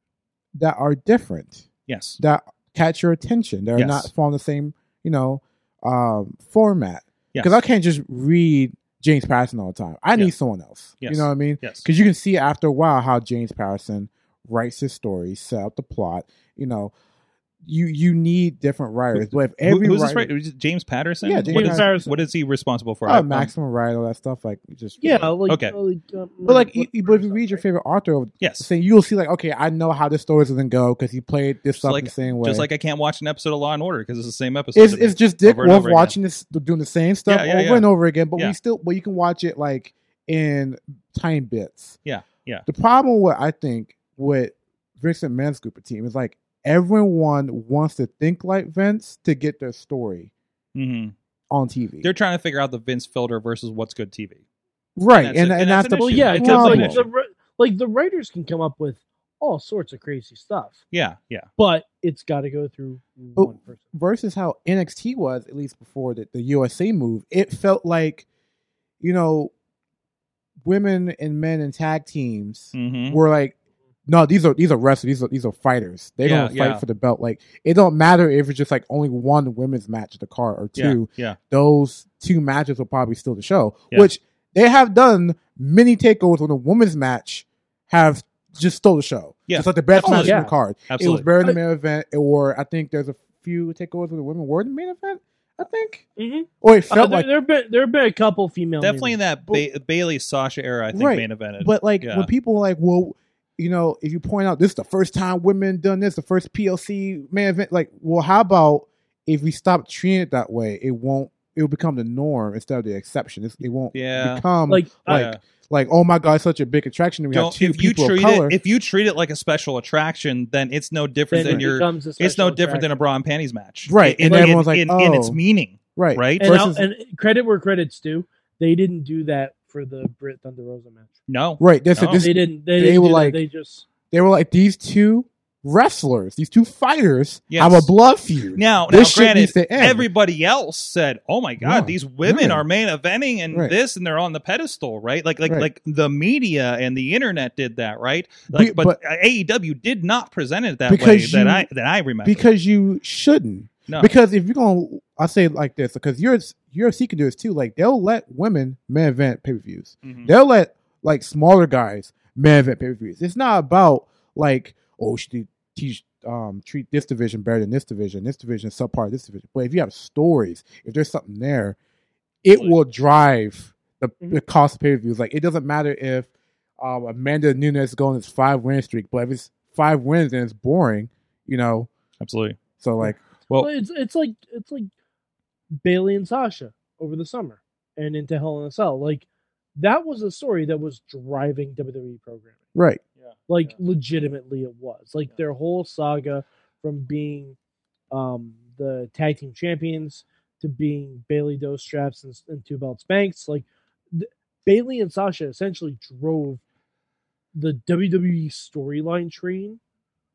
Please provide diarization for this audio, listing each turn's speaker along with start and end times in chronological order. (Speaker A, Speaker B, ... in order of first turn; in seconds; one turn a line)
Speaker A: 0.5-1.7
Speaker B: 1.9-2.2
Speaker A: 2.2-16.9
Speaker B: 3.7-4.1
Speaker B: 11.0-11.8
Speaker A: 17.6-20.3
Speaker B: 19.1-23.5
Speaker A: 21.2-21.9
Speaker C: 21.5-22.2
Speaker A: 23.1-25.3
Speaker C: 25.0-27.6
Speaker B: 25.5-25.7
Speaker A: 26.4-32.7
Speaker B: 28.4-28.7
Speaker B: 31.7-36.1
Speaker A: 34.7-42.0
Speaker B: 37.3-38.5
Speaker B: 42.0-42.6
Speaker A: 42.6-50.3
Speaker B: 50.7-51.1
Speaker A: 51.5-52.1
Speaker B: 52.0-54.4
Speaker A: 55.0-57.0
Speaker B: 55.1-57.0
Speaker C: 56.1-60.8
Speaker B: 60.9-61.5
Speaker C: 61.6-63.8
Speaker A: 63.4-68.2
Speaker A: 69.0-69.5
Speaker A: 70.6-73.5
Speaker B: 72.7-73.2
Speaker A: 74.1-96.0
Speaker B: 76.2-76.8
Speaker B: 80.8-81.4
Speaker B: 89.5-90.4
Speaker C: 90.0-90.5
Speaker B: 90.9-91.3
Speaker C: 96.2-99.2
Speaker A: 96.6-97.3
Speaker B: 98.8-102.3
Speaker A: 100.9-118.5
Speaker B: 113.9-114.5
Speaker C: 114.7-115.3
Speaker B: 115.0-115.4
Speaker B: 117.3-126.5
Speaker C: 121.3-122.9
Speaker A: 123.8-125.4
Speaker C: 124.2-124.6
Speaker A: 126.0-126.8
Speaker C: 126.4-131.1
Speaker B: 131.3-132.2
Speaker A: 131.6-133.4
Speaker C: 132.2-133.8
Speaker A: 134.1-140.1
Speaker B: 137.5-137.9
Speaker B: 138.6-152.4
Speaker A: 141.6-142.6
Speaker A: 148.5-149.0
Speaker A: 150.9-151.7
Speaker A: 152.2-171.8
Speaker B: 160.0-160.3
Speaker A: 172.4-181.9
Speaker B: 182.2-182.6
Speaker A: 182.8-183.2
Speaker C: 183.1-184.9
Speaker C: 185.8-189.2
Speaker C: 189.8-192.6
Speaker A: 192.7-193.0
Speaker C: 193.5-197.6
Speaker C: 198.1-206.6
Speaker C: 207.5-209.8